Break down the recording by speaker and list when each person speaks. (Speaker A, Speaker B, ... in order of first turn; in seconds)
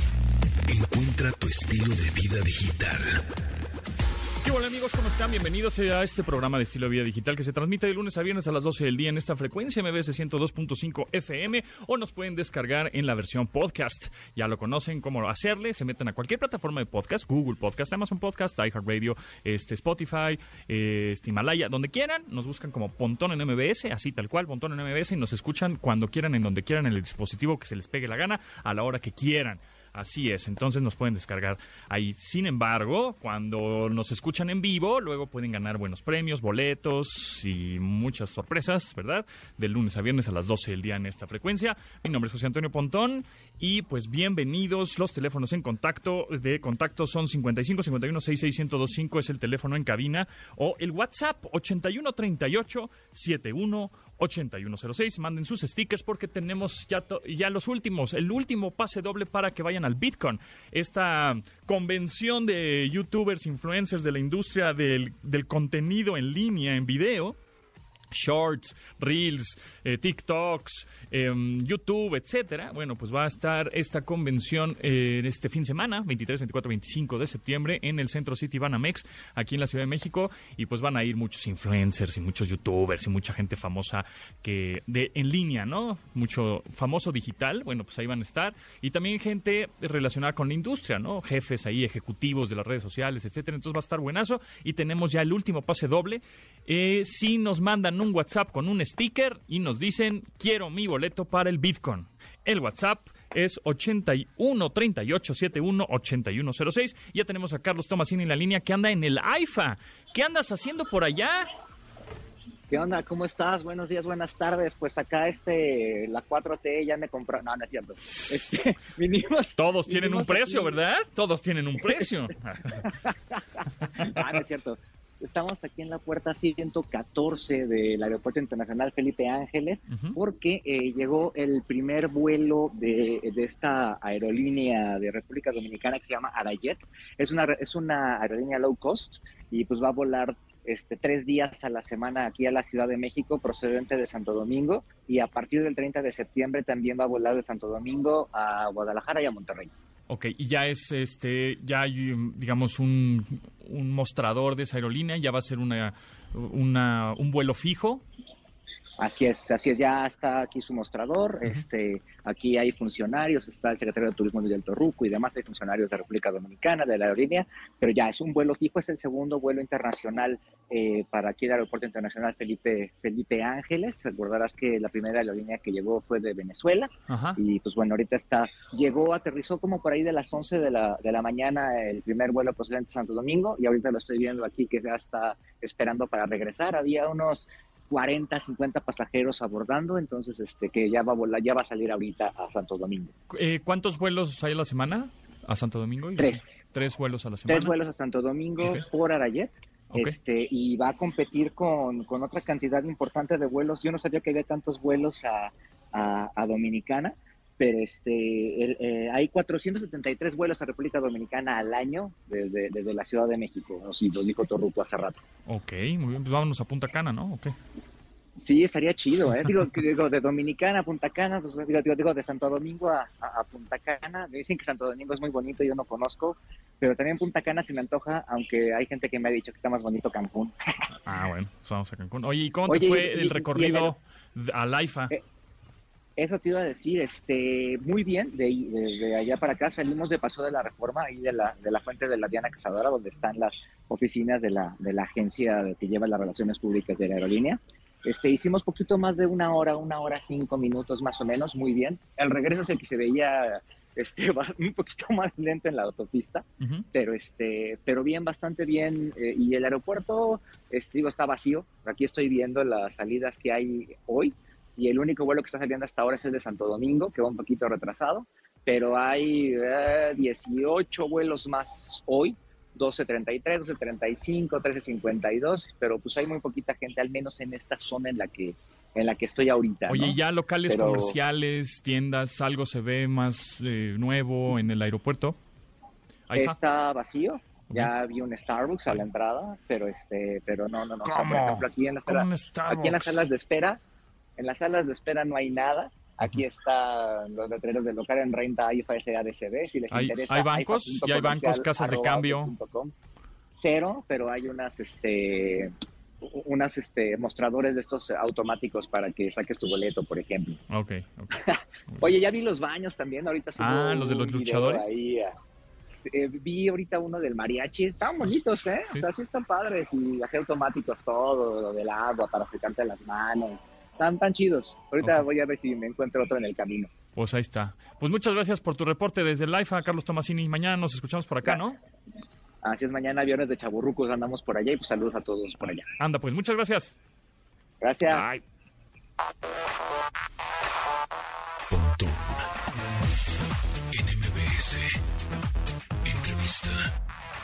Speaker A: 0.7-3.2, 341.7-342.5, 343.9-345.0, 346.0-346.9
Speaker B: 4.4-67.4, 68.1-111.5, 118.1-118.4, 119.6-122.8, 124.0-124.4, 129.9-130.2, 150.1-158.0, 177.1-177.4, 193.3-197.8, 198.6-198.8, 215.5-217.6, 231.0-235.1, 256.6-256.9, 279.9-285.4, 286.3-286.6, 291.0-293.3, 299.9-302.6, 310.7-312.1, 313.6-314.9, 327.2-331.8, 336.0-337.0, 338.1-338.4
Speaker C: 112.7-120.8, 121.8-122.2, 122.8-149.7, 159.0-193.1, 196.2-196.6, 197.5-215.2, 218.4-230.8, 232.7-233.9, 236.2-281.2, 286.3-293.8, 294.4-302.9, 303.5-310.6, 311.4-315.4, 315.9-326.9, 332.6-335.9, 337.8-338.3